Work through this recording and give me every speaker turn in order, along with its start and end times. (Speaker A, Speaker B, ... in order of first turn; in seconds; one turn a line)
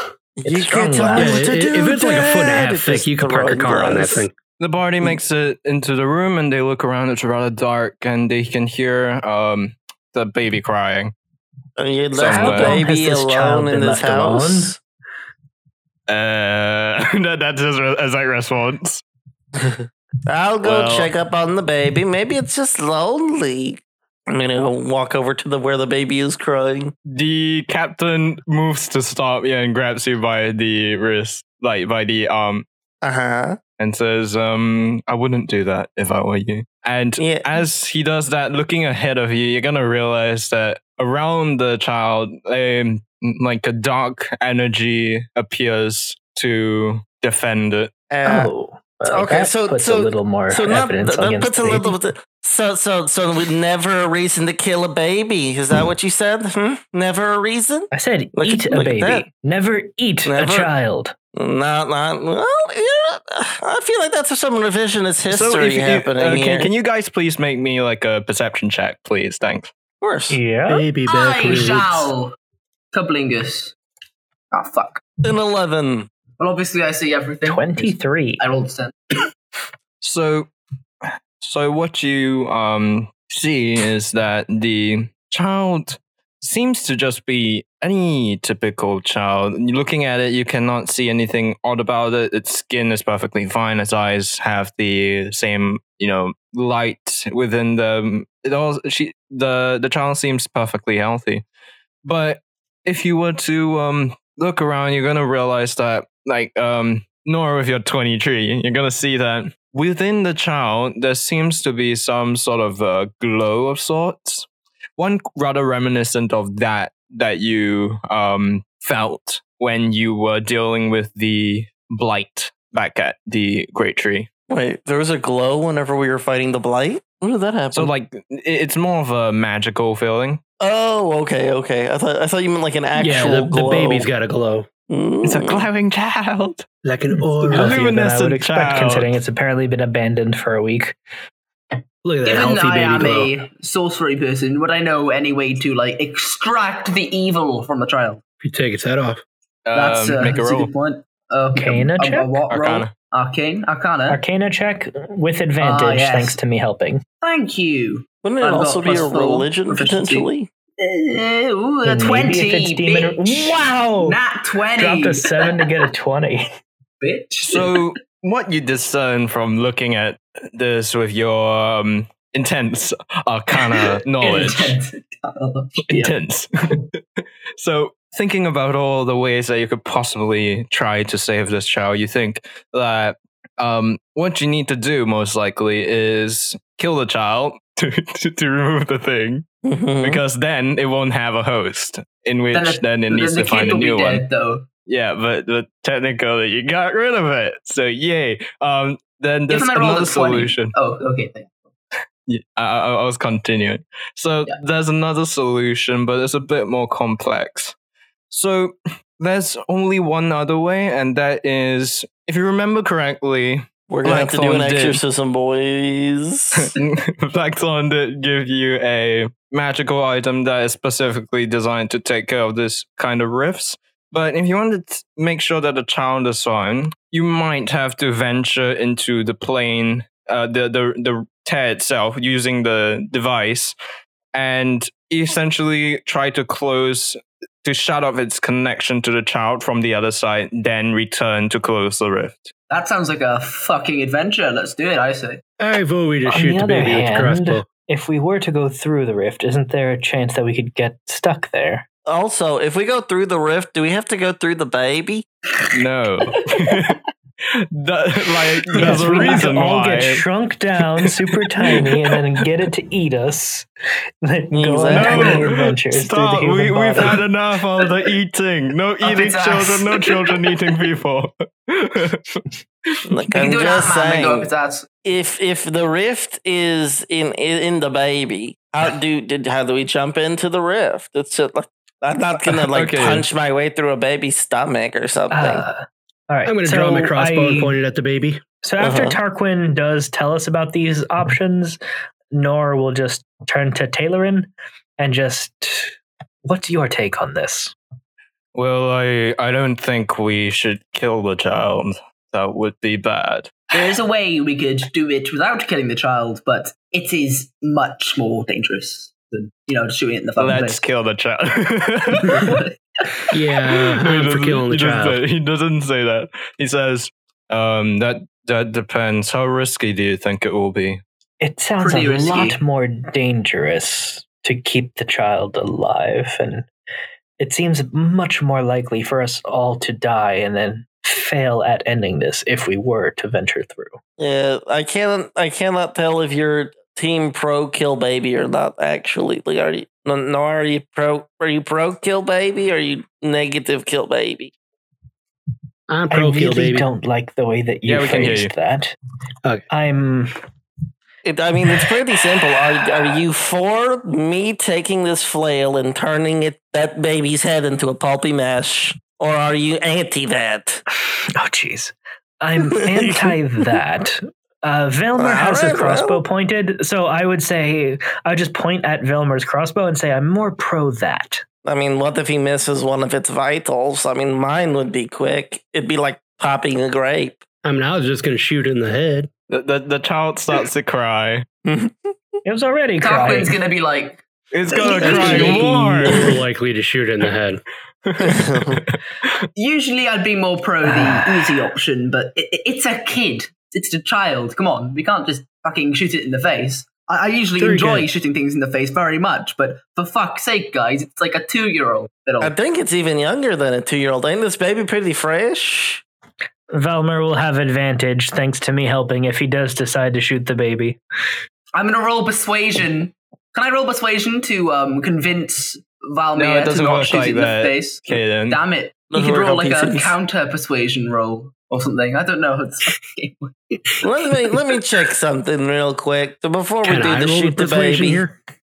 Speaker A: 0.4-4.3
Speaker B: 0.4-1.5
Speaker C: 1.1-4.3
Speaker D: 4.6-11.1
Speaker A: 11.8-14.8
Speaker D: 12.1-12.8
Speaker B: 12.3-14.8
Speaker D: 16.1-19.0
Speaker A: 19.6-26.9
Speaker D: 20.6-21.1
Speaker D: 27.1-32.6
Speaker A: 33.0-33.6
Speaker D: 33.8-47.9
Speaker A: 37.2-37.4
Speaker A: 48.1-48.5
Speaker B: 48.2-51.9
Speaker A: 49.1-59.3
Speaker B: 57.9-61.1
Speaker A: 60.2-60.7
Speaker A: 61.3-66.7
Speaker D: 65.3-69.7
Speaker A: 70.0-70.4
Speaker B: 70.3-70.9
Speaker C: 70.7-72.1
Speaker E: 71.1-72.3
Speaker E: 72.9-73.8
Speaker E: 74.5-75.0
Speaker A: 75.2-76.1
Speaker E: 76.4-78.9
Speaker B: 77.5-78.4
Speaker D: 80.0-80.5
Speaker D: 81.4-101.4
Speaker D: 102.0-124.3
Speaker A: 124.5-127.9
Speaker D: 127.7-130.4
Speaker A: 130.6-134.1
Speaker C: 133.0-134.7
Speaker A: 134.9-135.7
Speaker D: 135.2-136.7
Speaker C: 136.8-137.8
Speaker D: 137.4-139.1
Speaker B: 137.5-141.0
Speaker C: 142.0-143.3
Speaker E: 142.2-148.2
Speaker C: 148.4-149.2
Speaker D: 149.7-150.7
Speaker E: 149.7-154.2
Speaker B: 151.5-152.4
Speaker D: 152.5-152.9
Speaker B: 154.1-157.0
Speaker E: 155.6-156.4
Speaker E: 157.2-165.7
Speaker A: 158.2-160.5
Speaker B: 161.8-164.2
Speaker B: 164.8-166.5
Speaker E: 167.0-167.9
Speaker D: 167.4-174.8
Speaker E: 173.6-176.1
Speaker D: 175.9-177.0
Speaker D: 177.6-189.5
Speaker A: 189.6-190.2
Speaker D: 190.0-194.2
Speaker E: 192.5-194.7
Speaker D: 194.9-200.7
Speaker E: 199.5-201.6
Speaker D: 202.3-207.8
Speaker D: 208.3-215.0
Speaker A: 213.9-216.7
Speaker D: 216.6-233.8
Speaker D: 234.3-242.5
Speaker E: 242.7-245.4
Speaker C: 245.6-247.7
Speaker B: 246.3-251.8
Speaker A: 252.1-255.3
Speaker D: 255.7-257.0
Speaker D: 257.8-260.2
Speaker B: 258.8-263.7
Speaker E: 258.9-259.2
Speaker B: 264.2-267.2
Speaker A: 264.5-265.5
Speaker D: 264.9-273.0
Speaker E: 269.0-270.6
Speaker A: 273.1-274.5
Speaker E: 273.3-274.9
Speaker A: 275.0-285.6
Speaker D: 282.5-283.2
Speaker B: 285.3-287.8
Speaker C: 286.5-288.4
Speaker B: 288.6-291.8
Speaker A: 288.8-289.2
Speaker B: 292.3-297.8
Speaker D: 298.5-303.6
Speaker E: 303.7-310.8
Speaker D: 310.4-312.6
Speaker E: 312.1-312.8
Speaker D: 313.3-321.0
Speaker C: 313.3-315.2
Speaker B: 321.4-326.7
Speaker E: 321.8-322.6
Speaker B: 327.4-334.0
Speaker A: 334.2-344.5
Speaker C: 345.9-346.9
Speaker B: 346.1-349.0
Speaker D: 347.9-348.5
Speaker B: 349.7-350.3
Speaker A: 351.2-360.8
Speaker B: 361.4-371.4
Speaker A: 362.8-363.4
Speaker A: 365.2-366.2
Speaker A: 371.6-377.4
Speaker C: 377.6-379.3
Speaker D: 379.5-381.5
Speaker A: 381.6-382.1
Speaker B: 382.4-383.6
Speaker E: 383.0-385.7
Speaker D: 384.5-386.4
Speaker C: 385.0-387.6
Speaker D: 388.1-389.4
Speaker A: 388.2-388.8
Speaker E: 389.6-402.5
Speaker C: 397.6-398.1
Speaker A: 402.4-406.0
Speaker B: 406.7-411.0
Speaker E: 411.7-423.5
Speaker D: 416.4-418.6
Speaker A: 419.1-420.1
Speaker A: 424.0-428.2
Speaker C: 426.8-428.4